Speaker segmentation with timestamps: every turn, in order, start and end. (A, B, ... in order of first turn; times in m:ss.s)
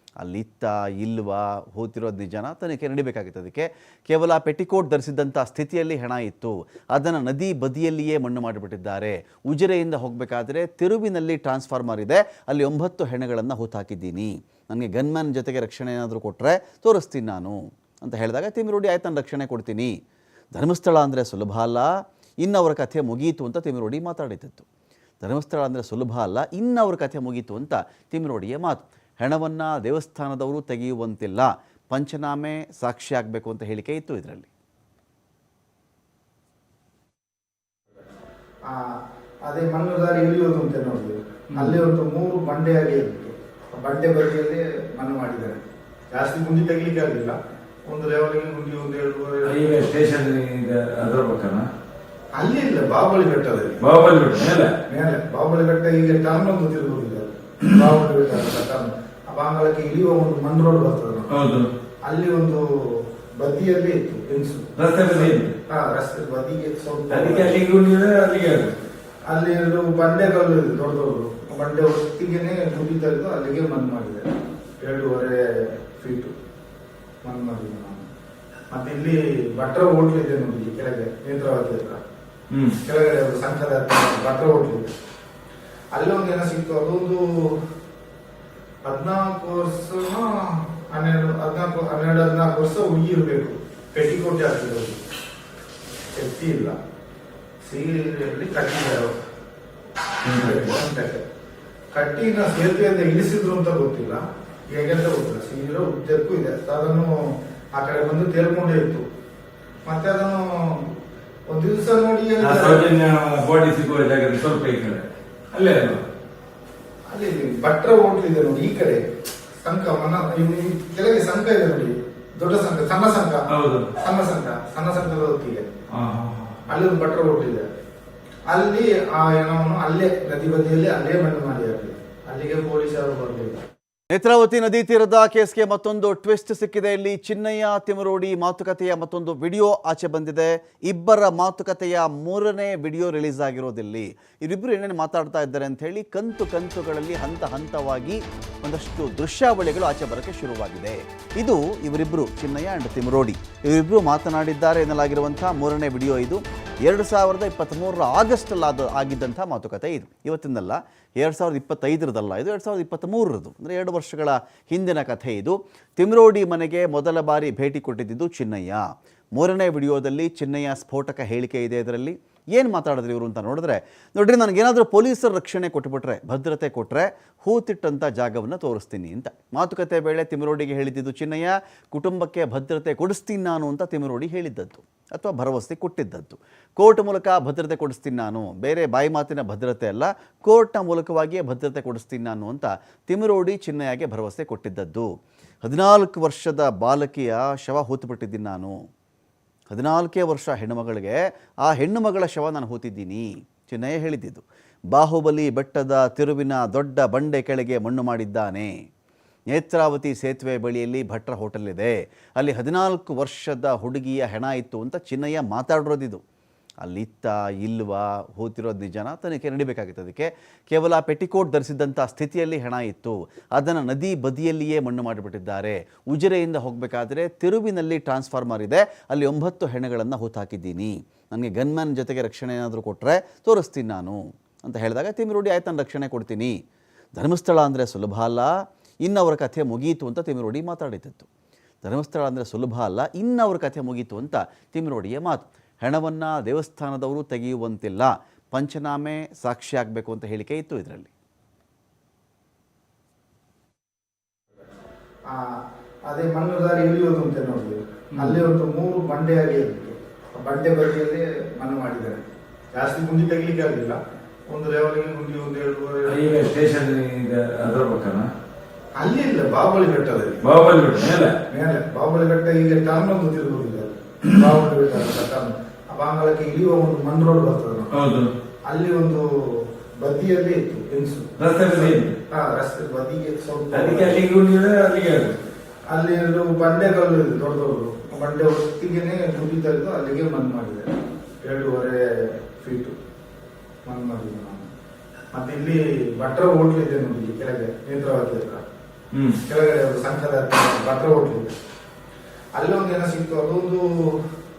0:00.2-0:19.9 A
0:20.5-0:21.9 A
0:22.4-0:24.6 A
0:25.2-0:34.5 A
0:38.6-0:45.6 B
0:46.1-0:49.5 B
0:49.4-0:51.7 C
0:52.4-0:53.8 B
0:53.8-0:54.7 C
0:54.9-1:01.3 B
1:01.3-1:01.7 C
1:02.0-1:07.6 B
1:04.8-1:05.5 C
1:07.1-1:08.8 C
1:09.3-1:14.3 B
1:14.8-1:16.3 B
1:17.2-1:18.1 B
1:18.7-1:22.0 B
1:22.5-1:22.8 C
1:22.8-1:24.9 B
1:25.9-1:27.7 B
1:28.8-1:35.0 B
1:36.2-1:36.8 B
1:37.6-1:39.2 B
1:40.2-1:40.7 C
1:40.3-1:41.2 B
1:41.9-1:49.0 B
1:49.8-1:52.8 B
1:52.4-1:55.0 C
1:55.5-1:56.0 C
1:57.1-1:59.0 B
1:59.6-2:03.4 B
2:03.5-2:03.9 C
2:04.0-2:05.6 B
2:05.9-2:06.6 C
2:06.7-2:07.7 B
2:08.5-2:13.6 B
2:14.1-2:48.8 A
2:49.4-3:15.1 A
3:15.6-3:18.7 A
3:19.7-3:28.7 A
3:29.5-3:36.2 A
3:36.8-3:56.5 A
3:57.2-3:58.5 A
3:59.0-4:01.3 A
4:01.8-4:11.1 A
4:15.3-4:22.2 B
4:18.1-4:18.4 C
4:22.7-4:26.2 B
4:26.0-4:28.3 C
4:29.0-4:30.4 B
4:30.4-4:31.3 C
4:31.5-4:37.9 B
4:37.9-4:38.3 C
4:38.6-4:41.3 B
4:41.4-4:42.2 C
4:42.3-4:44.2 B
4:43.7-4:45.4 C
4:45.9-4:50.9 B
4:51.4-4:53.0 B
4:53.8-4:54.7 B
4:55.3-4:58.6 B
4:59.1-4:59.4 C
4:59.5-5:01.5 B
5:02.5-5:04.3 B